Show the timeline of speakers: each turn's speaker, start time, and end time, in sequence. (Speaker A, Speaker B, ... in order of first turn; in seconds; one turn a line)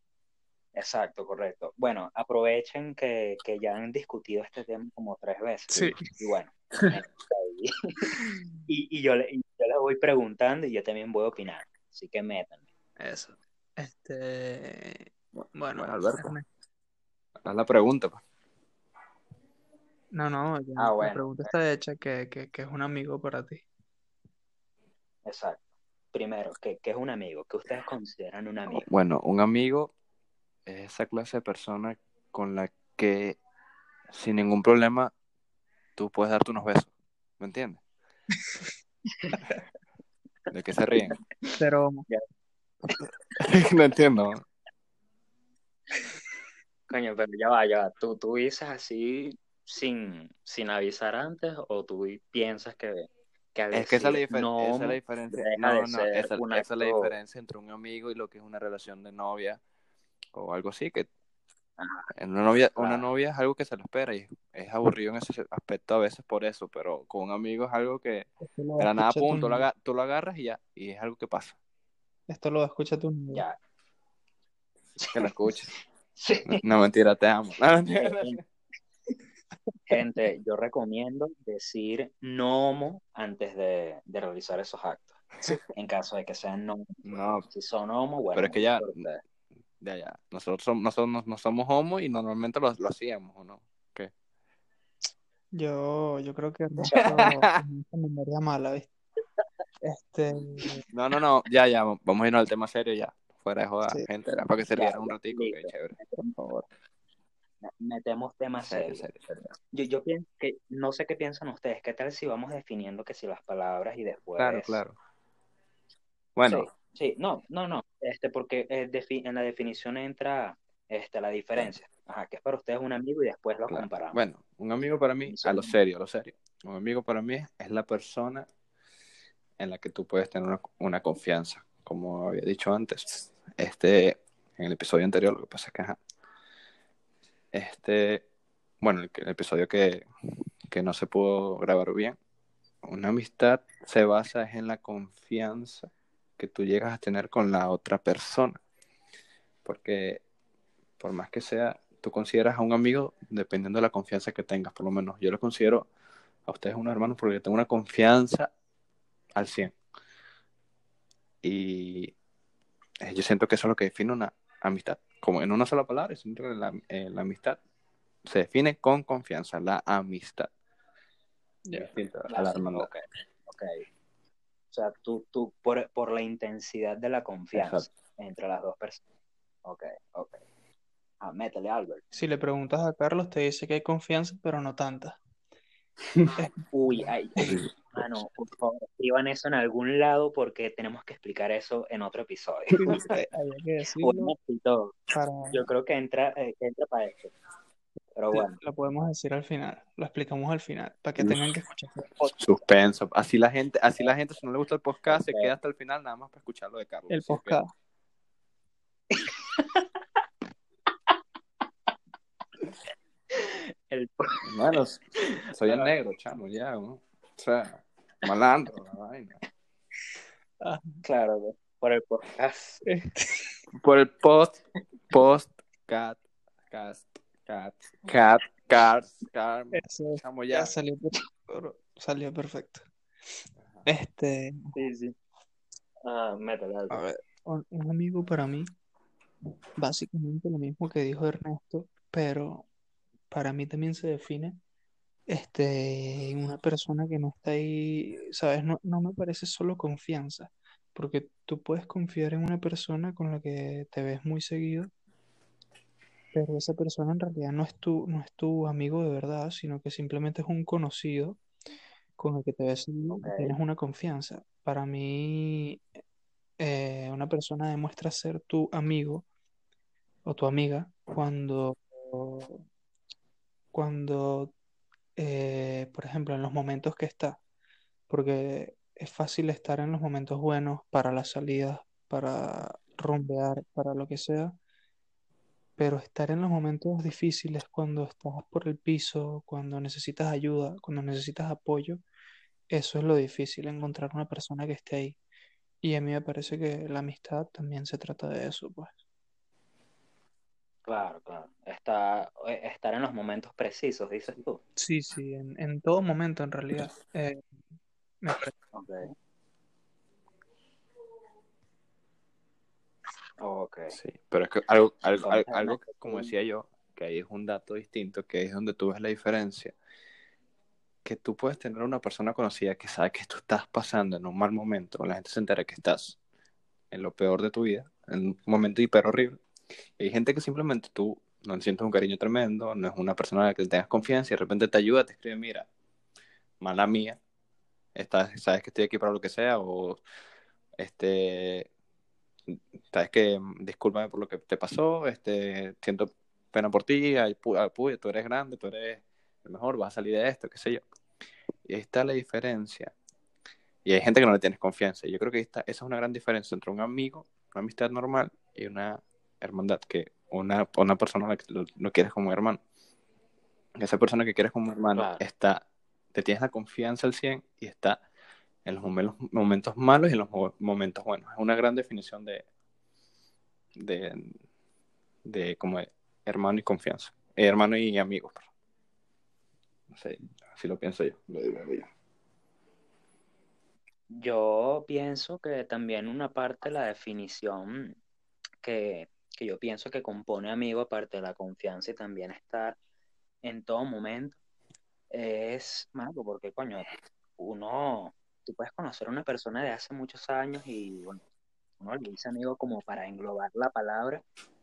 Speaker A: 0.7-12.6
Speaker B: 5.7-6.0
Speaker C: 5.7-6.1
Speaker C: 8.2-8.6
Speaker C: 13.0-16.4
Speaker B: 15.8-16.3
Speaker B: 17.4-18.2
Speaker C: 20.1-23.6
Speaker A: 20.8-21.5
Speaker A: 25.2-28.9
Speaker B: 28.8-29.9
Speaker B: 30.7-33.4
Speaker B: 34.1-35.1
Speaker B: 36.0-37.8
Speaker B: 40.5-41.2
Speaker C: 41.6-42.1
Speaker B: 43.4-44.4
Speaker A: 46.9-57.2
Speaker B: 53.7-59.6
Speaker B: 60.3-61.1
Speaker A: 61.8-62.1
Speaker B: 62.1-71.6
Speaker A: 62.8-63.1
Speaker C: 68.4-69.7
Speaker C: 72.3-73.5
Speaker A: 75.0-75.3
Speaker B: 75.1-75.7
Speaker A: 76.2-76.6
Speaker B: 76.5-78.4
Speaker A: 77.9-78.4
Speaker A: 79.9-85.2
Speaker A: 85.7-89.2
Speaker B: 87.0-87.5
Speaker B: 88.3-89.0
Speaker B: 89.8-94.1
Speaker C: 95.5-98.9
Speaker A: 96.9-97.3
Speaker B: 97.0-97.6
Speaker C: 99.8-100.8
Speaker B: 100.9-106.0
Speaker A: 104.8-106.3
Speaker C: 106.2-106.7
Speaker A: 107.6-109.0
Speaker B: 108.7-109.6
Speaker A: 109.7-114.8
Speaker B: 114.4-115.0
Speaker B: 116.4-116.7
Speaker A: 116.5-124.2
Speaker B: 123.7-128.5
Speaker A: 125.3-125.8
Speaker B: 129.6-136.0
Speaker B: 137.5-138.2
Speaker B: 138.8-140.1
Speaker B: 140.7-142.2
Speaker B: 142.8-148.6
Speaker B: 149.7-150.2
Speaker B: 151.0-155.9
Speaker B: 156.5-158.5
Speaker B: 159.4-159.8
Speaker B: 161.4-162.2
Speaker B: 163.0-167.6
Speaker B: 168.2-170.5
Speaker C: 171.7-171.9
Speaker B: 171.8-172.9
Speaker A: 172.3-173.8
Speaker A: 174.7-179.0
Speaker B: 177.5-177.9
Speaker A: 179.7-180.4
Speaker A: 181.2-182.0
Speaker C: 182.1-185.2
Speaker C: 186.4-187.1
Speaker A: 186.7-193.0
Speaker B: 187.4-187.7
Speaker C: 192.8-194.3
Speaker B: 192.9-193.2
Speaker A: 194.0-195.0
Speaker C: 195.1-195.7
Speaker A: 195.5-197.3
Speaker A: 198.2-198.6
Speaker C: 198.3-202.3
Speaker B: 201.2-201.4
Speaker B: 202.3-207.6
Speaker A: 205.1-205.5
Speaker C: 207.1-207.7
Speaker A: 209.1-209.8
Speaker A: 213.3-215.9
Speaker B: 214.4-219.4
Speaker C: 220.6-221.0
Speaker A: 221.1-222.8
Speaker C: 222.8-223.6
Speaker B: 223.8-224.6
Speaker B: 225.1-230.7
Speaker C: 229.7-232.9
Speaker C: 233.9-234.8
Speaker A: 234.7-235.2
Speaker A: 236.0-237.0
Speaker C: 236.9-238.7
Speaker C: 239.8-242.7
Speaker C: 243.3-244.6
Speaker C: 245.3-254.9
Speaker C: 256.3-261.4
Speaker C: 262.2-265.8
Speaker A: 263.1-263.6
Speaker C: 266.6-269.3
Speaker C: 270.2-272.6
Speaker C: 273.7-274.5
Speaker C: 275.2-277.4
Speaker C: 278.1-284.6
Speaker C: 285.8-292.0
Speaker C: 292.7-295.2
Speaker C: 295.8-299.0
Speaker A: 300.9-304.6
Speaker C: 304.8-307.4
Speaker C: 308.2-308.5
Speaker A: 308.7-309.1
Speaker A: 313.4-314.0
Speaker B: 313.9-319.8
Speaker A: 315.2-316.3
Speaker B: 321.1-326.2
Speaker B: 326.9-329.4
Speaker B: 330.0-335.7
Speaker B: 336.6-337.2
Speaker B: 337.9-340.0
Speaker B: 340.8-341.7
Speaker B: 342.5-350.8
Speaker B: 351.7-352.9
Speaker B: 353.9-362.6
Speaker B: 363.8-368.0
Speaker A: 364.9-365.2
Speaker B: 368.6-372.5
Speaker B: 373.8-374.4
Speaker B: 375.2-378.5
Speaker B: 379.9-381.9
Speaker A: 384.1-388.0
Speaker A: 388.6-392.8
Speaker A: 393.4-394.4
Speaker A: 395.1-401.2
Speaker A: 401.8-404.2